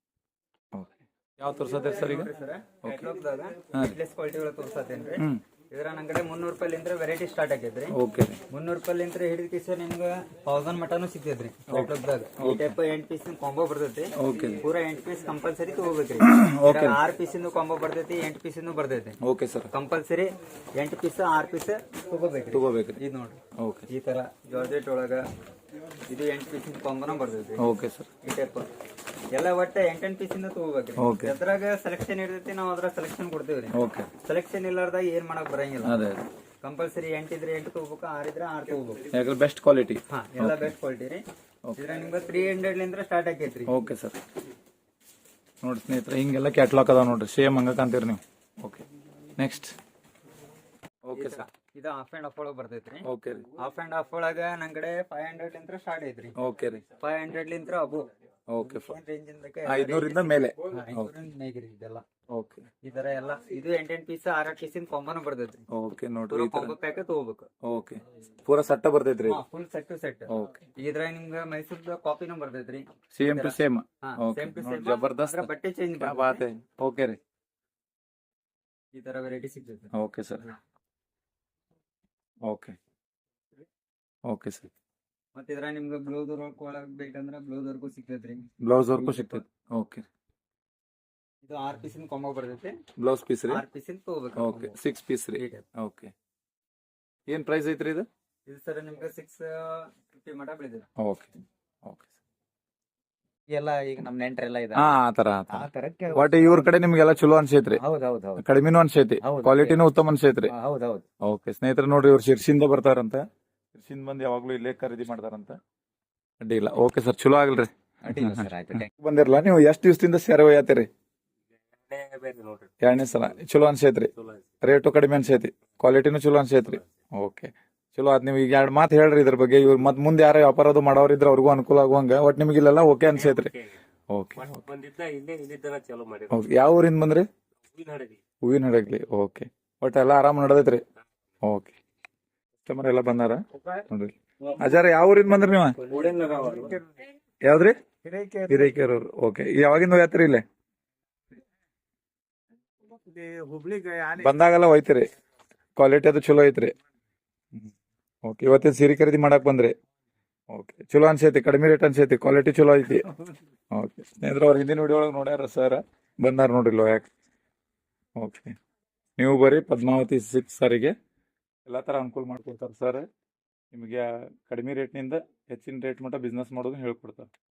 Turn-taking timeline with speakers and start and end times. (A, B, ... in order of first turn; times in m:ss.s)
0:00.7-0:02.3 A
0:01.8-0:07.9 B
0:02.8-0:03.1 A
0:03.7-0:04.0 A
0:05.2-0:05.4 A
0:07.9-0:08.4 A
0:08.5-0:19.2 B
0:11.7-0:12.8 A
0:14.2-0:14.7 A
0:16.2-0:17.0 A
0:19.2-0:19.7 A
0:19.7-0:25.2 B
0:22.5-0:23.0 A
0:23.6-0:23.9 A
0:26.1-0:27.6 B
0:27.6-0:28.1 A
0:28.2-0:28.7 B
0:29.3-0:36.0 B
0:31.0-0:31.4 A
0:33.7-0:34.1 A
0:35.8-0:36.2 A
0:36.6-0:39.1 B
0:39.1-0:40.7 A
0:40.1-0:41.2 B
0:41.8-0:43.7 B
0:43.7-0:44.2 A
0:45.6-0:49.7 A
0:51.0-0:51.4 A
0:51.1-0:56.3 B
0:53.0-0:53.5 A
0:56.4-0:56.8 A
0:57.0-0:58.1 B
0:58.5-0:58.9 A
0:58.7-1:02.0 B
0:59.6-1:01.1 A
1:02.3-1:02.7 A
1:02.8-1:05.6 B
1:05.7-1:06.7 A
1:06.3-1:07.5 B
1:07.6-1:09.4 A
1:09.2-1:16.4 B
1:10.3-1:10.7 A
1:13.1-1:17.2 A
1:18.9-1:19.9 B
1:19.9-1:20.4 A
1:22.4-1:22.8 A
1:24.2-1:24.7 A
1:25.3-1:29.4 B
1:28.6-1:30.0 A
1:31.4-1:32.8 B
1:33.0-1:33.6 A
1:33.5-1:34.8 B
1:34.4-1:36.1 A
1:35.4-1:35.6 B
1:37.3-1:38.0 A
1:38.4-1:40.9 B
1:41.0-1:42.1 A
1:43.5-1:45.0 C
1:44.7-1:47.8 A
1:45.5-1:46.7 C
1:47.7-1:48.4 C
1:48.4-1:50.5 A
1:49.2-1:49.8 C
1:50.4-1:51.0 C
1:51.2-1:53.2 A
1:53.7-1:55.6 A
1:56.4-2:00.9 A
1:58.0-1:58.9 C
2:01.7-2:02.8 D
2:02.8-2:04.1 A
2:04.6-2:13.5 A
2:13.1-2:13.7 D
2:14.1-2:14.6 A
2:14.4-2:16.4 D
2:16.3-2:17.3 A
2:17.7-2:18.2 D
2:18.4-2:20.8 A
2:21.4-2:21.8 A
2:22.6-2:25.8 A
2:25.8-2:26.8 D
2:25.9-2:26.7 C
2:25.9-2:27.0 B
2:27.4-2:27.8 A
2:28.1-2:28.6 B
2:28.5-2:30.4 A
2:33.1-2:34.1 C
2:33.5-2:33.8 B
2:34.2-2:35.1 A
2:35.8-2:36.7 A
2:38.2-2:39.7 A
2:40.5-2:43.1 A
2:43.7-2:47.1 A
2:48.2-2:48.5 A
2:49.2-2:50.9 A
2:51.6-2:53.0 A
2:53.7-2:57.3 A